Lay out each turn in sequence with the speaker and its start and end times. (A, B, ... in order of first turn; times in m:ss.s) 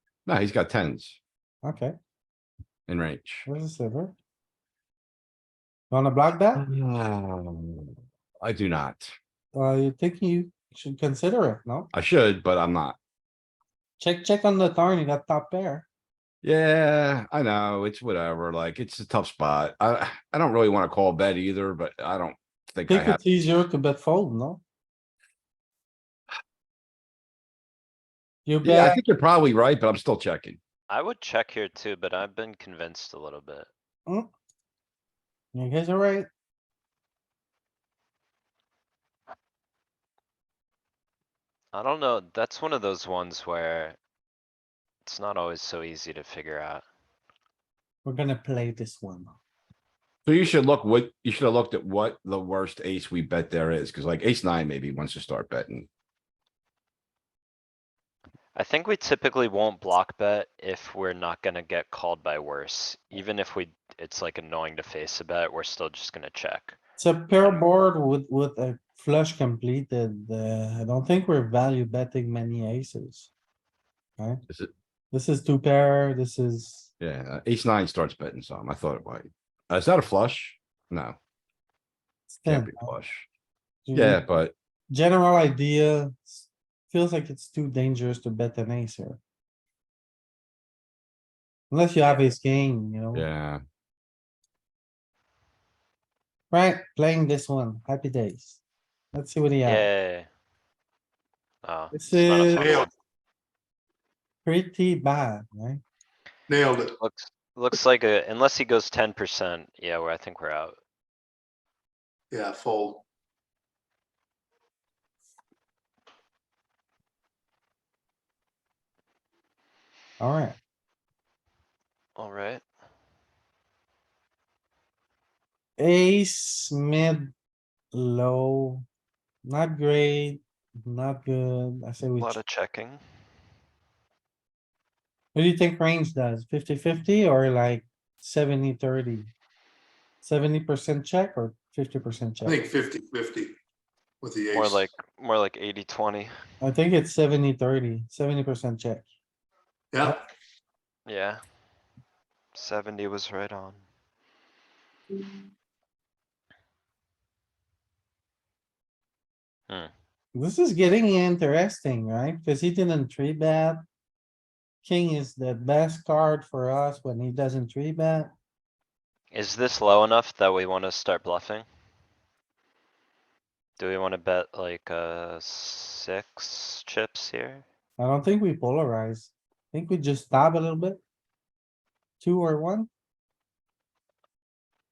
0:00.3-0:01.2 A
0:01.6-0:01.9 B
0:02.9-0:03.5 A
0:03.5-0:04.2 B
0:05.9-0:06.6 B
0:06.6-0:09.1 A
0:09.5-0:11.9 B
0:11.9-0:13.0 A
0:14.0-0:15.9 B
0:16.4-0:23.2 A
0:22.9-0:24.6 B
0:28.5-0:29.0 B
0:28.6-0:30.6 A
0:30.9-0:33.7 C
0:35.5-0:36.3 B
0:41.7-0:44.0 C
0:45.0-0:46.8 C
0:48.0-0:49.3 B
0:50.2-0:55.9 A
0:58.6-1:06.8 C
1:07.0-1:13.3 B
1:15.1-1:16.9 B
1:17.0-1:21.2 A
1:22.3-1:22.9 B
1:22.5-1:23.3 A
1:23.9-1:24.2 B
1:23.9-1:24.5 A
1:24.9-1:29.2 B
1:31.7-1:33.3 B
1:33.1-1:33.6 A
1:36.5-1:38.6 B
1:39.1-1:39.9 B
1:39.6-1:40.3 C
1:41.6-1:42.9 C
1:41.9-1:42.7 B
1:42.6-1:42.9 D
1:44.4-1:45.8 B
1:46.5-1:47.0 D
1:47.0-1:50.8 C
1:52.3-1:53.0 D
2:00.2-2:00.6 B
2:02.2-2:02.6 C
2:05.8-2:07.3 B
2:07.9-2:08.8 B
2:09.4-2:12.4 B
2:12.2-2:13.0 C
2:15.4-2:19.3 B
2:20.2-2:22.6 B
2:22.4-2:23.6 D
2:24.2-2:24.9 D
2:24.5-2:26.3 C
2:26.6-2:29.1 B
2:29.9-2:30.2 D
2:31.1-2:31.4 C
2:32.6-2:33.8 C
2:40.3-2:43.8 B
2:44.8-2:48.3 B
2:49.3-2:51.7 C
2:53.8-2:57.6 C
2:58.0-3:01.0 B
3:02.2-3:02.9 B